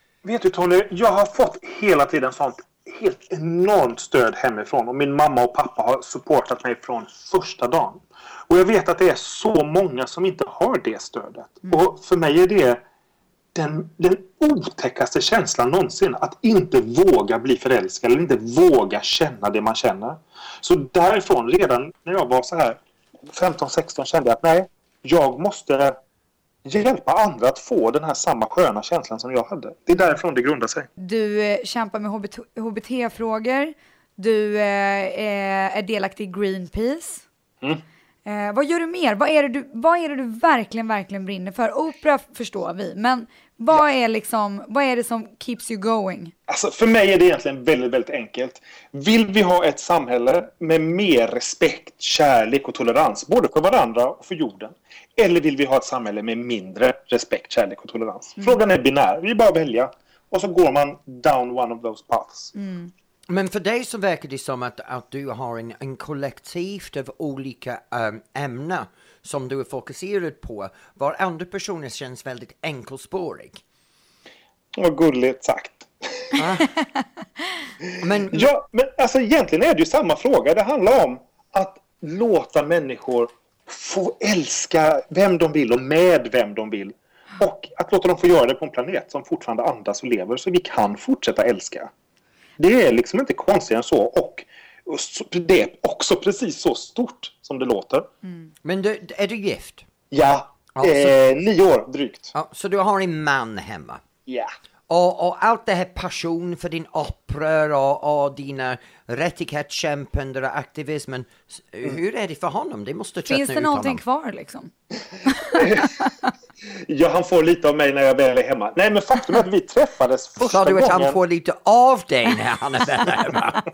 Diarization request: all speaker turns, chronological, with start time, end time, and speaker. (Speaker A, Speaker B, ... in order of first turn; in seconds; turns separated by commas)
Speaker A: 0.2-12.8, Speaker A: 13.5-22.8, Speaker A: 23.3-26.0, Speaker A: 26.6-30.9, Speaker B: 31.0-37.2, Speaker B: 38.2-46.3, Speaker A: 46.5-62.5, Speaker B: 62.5-62.9, Speaker C: 63.3-73.6, Speaker A: 74.8-76.4, Speaker C: 76.4-76.7, Speaker C: 78.0-78.5, Speaker A: 78.3-91.9, Speaker A: 92.6-98.1, Speaker C: 98.6-99.9, Speaker A: 100.1-102.3, Speaker C: 100.8-101.2, Speaker C: 102.3-104.0, Speaker C: 104.9-114.0, Speaker B: 113.3-114.7, Speaker B: 115.2-115.7, Speaker A: 115.5-115.9, Speaker A: 116.9-121.2, Speaker C: 120.4-123.6